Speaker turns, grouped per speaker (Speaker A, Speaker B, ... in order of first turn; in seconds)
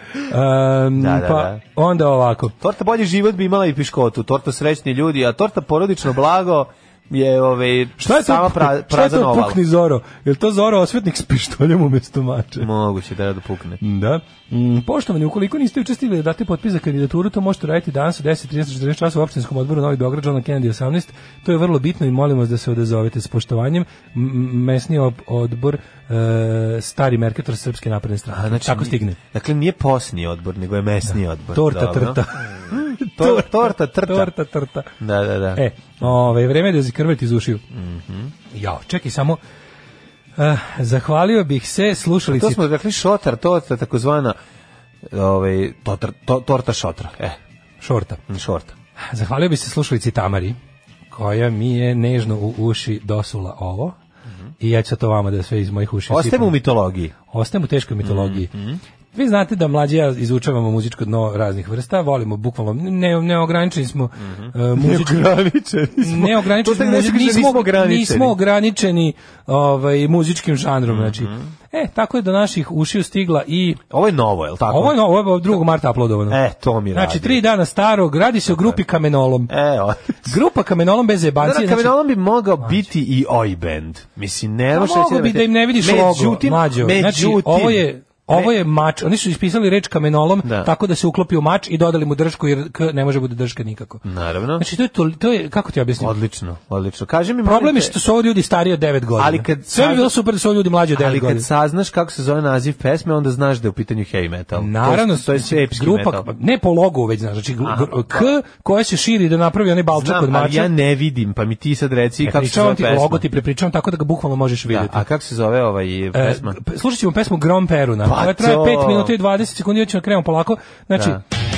Speaker A: 0.3-2.5, 8.0-12.7, 13.8-29.2, 31.5-34.9, 35.5-37.6, 38.5-39.4, 40.4-42.6, 47.8-48.2, 49.1-50.6, 51.1-54.0, 54.6-56.5, 57.3-58.5, 59.1-65.4, 66.0-73.8, 74.7-76.4, 76.9-79.5, 80.2-81.9, 84.7-94.0, 94.6-96.1, 97.4-101.5, 104.6-110.7, 112.2-115.0, 116.1-121.2
Speaker B: 0.9-1.6, 2.6-9.6, 12.6-13.8, 28.3-34.3, 35.0-35.6, 37.7-38.3, 42.3-44.4, 45.1-47.4, 48.3-48.7, 56.1-57.1, 58.0-58.8, 64.2-68.3, 70.9-71.4, 73.9-75.0, 76.3-77.4, 78.5-78.8, 79.5-80.4, 81.4-88.6, 90.4-90.7, 94.0-94.7, 96.0-98.0, 99.2-100.1, 100.9-106.3, 107.6-108.3, 109.9-113.2, 114.7-116.6, 118.0-119.2, 121.0-121.2